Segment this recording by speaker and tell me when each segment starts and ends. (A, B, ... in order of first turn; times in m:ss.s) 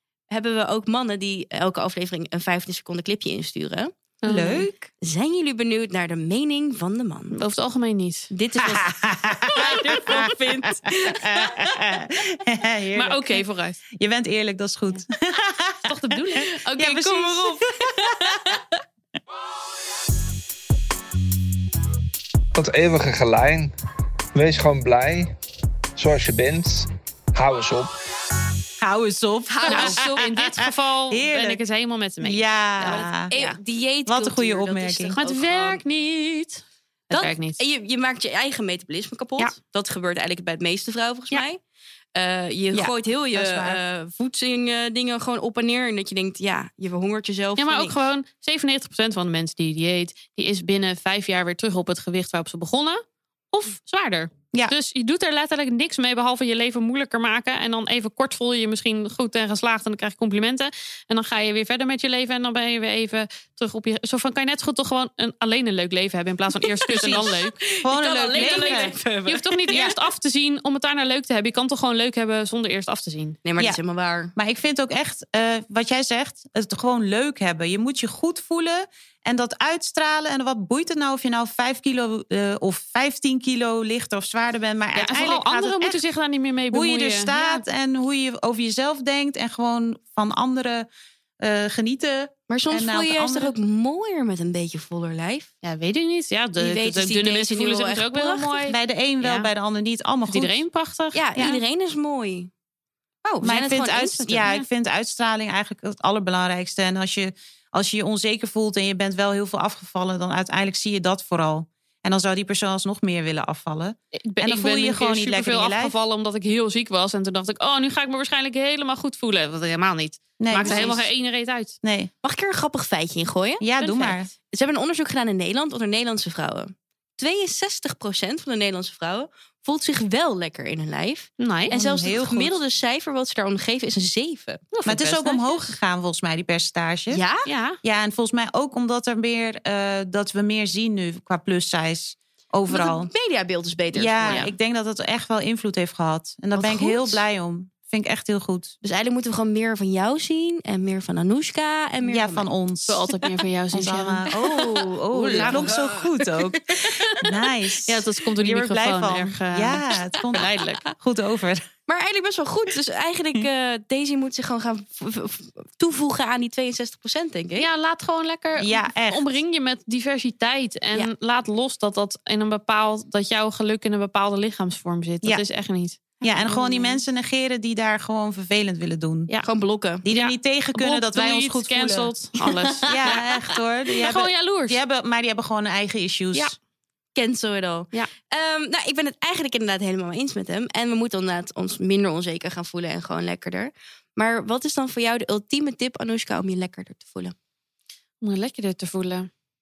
0:00.3-0:03.9 A
0:04.2-0:04.7 B
0:04.2-0:04.9 C
0:05.0-0:07.4 A
0:07.3-0:08.3 B
0:08.3-0:08.9 A
0:08.6-0:13.4 C
0:09.5-0:11.1 B
0:09.6-0:10.7 A
0:12.9-0:13.8 B
0:13.9-0:18.6 C
0:15.9-0:17.7 B
0:22.6-0:23.7 D
0:24.4-0:25.3 D
0:26.0-0:27.9 D
0:28.8-0:31.6 C
0:29.5-0:30.2 A
0:29.7-0:33.6 B
0:32.2-0:33.3 C
0:33.3-0:35.8 A
0:34.1-0:35.2 C
0:35.2-0:37.6 B
0:37.1-0:41.6 A
0:42.1-0:48.0 A
0:42.7-0:43.8 C
0:47.6-1:07.6 B
1:06.7-1:09.8 A
1:06.9-1:08.9 C
1:08.3-1:13.4 B
1:09.7-1:10.0 C
1:13.4-1:14.3 A
1:14.4-1:26.0 C
1:24.9-1:27.6 B
1:26.7-1:30.9 C
1:31.4-1:33.5 C
1:32.5-1:35.5 A
1:35.6-1:39.5 B
1:36.6-1:38.7 A
1:38.7-1:40.6 C
1:40.3-1:41.2 B
1:41.1-1:42.5 A
1:43.2-1:44.5 A
1:43.4-1:56.0 C
1:54.2-2:01.8 B
2:00.4-2:01.1 C
2:00.6-2:01.0 A
2:01.8-2:02.1 C
2:02.2-2:03.6 A
2:03.6-2:04.3 C
2:03.8-2:04.2 B
2:04.5-2:14.6 A
2:11.4-2:11.7 B
2:11.7-2:12.6 C
2:14.7-2:15.8 B
2:14.9-2:17.2 C
2:17.1-2:17.5 A
2:17.4-2:17.8 B
2:17.8-2:23.1 C
2:22.7-2:24.5 A
2:23.9-2:28.7 C
2:26.6-2:27.2 A
2:28.8-2:32.5 A
2:32.0-2:33.2 C
2:32.9-2:34.2 B
2:33.7-2:41.7 C
2:34.3-2:37.2 A
2:35.3-2:35.7 B
2:37.9-2:40.8 B
2:41.9-2:47.7 A
2:47.6-2:57.0 B
2:48.6-2:49.2 C
2:56.2-2:59.3 C
2:59.4-3:00.0 A
3:00.0-3:02.1 C
3:00.1-3:03.2 B
3:02.4-3:03.2 A
3:02.9-3:06.6 C
3:04.0-3:04.8 B
3:07.2-3:17.4 A
3:18.2-3:19.3 B